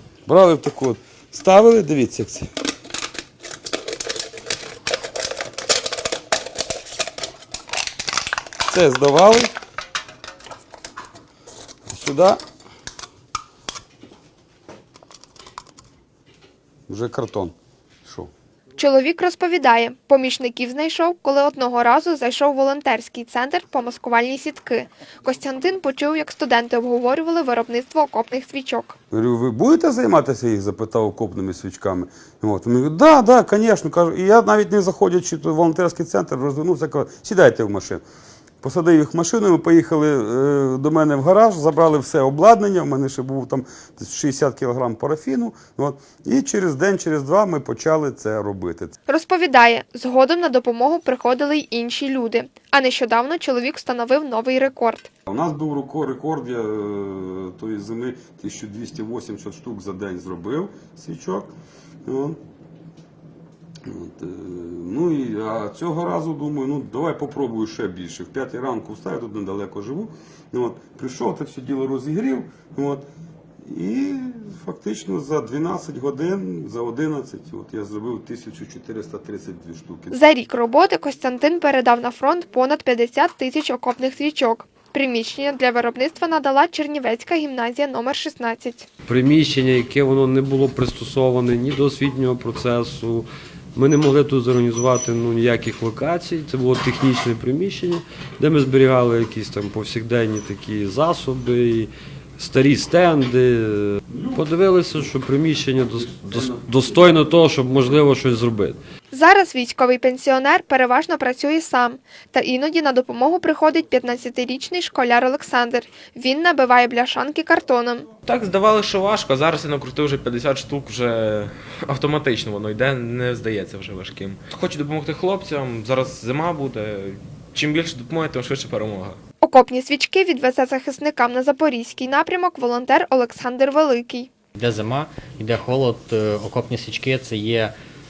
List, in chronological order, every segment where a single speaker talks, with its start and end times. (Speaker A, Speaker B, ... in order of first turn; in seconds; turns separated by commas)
Speaker A: 0.3-2.5, Speaker A: 8.7-9.5, Speaker A: 11.9-12.4, Speaker A: 16.9-17.5, Speaker A: 18.1-18.3, Speaker B: 18.8-28.9, Speaker A: 29.1-38.0, Speaker A: 38.6-49.0, Speaker B: 49.1-55.1, Speaker A: 55.3-61.5, Speaker A: 62.0-62.4, Speaker A: 63.9-73.0, Speaker A: 73.6-80.1, Speaker B: 80.1-88.9, Speaker C: 89.1-108.8, Speaker B: 109.1-118.1, Speaker D: 118.4-129.1, Speaker B: 129.4-134.3, Speaker E: 134.6-137.7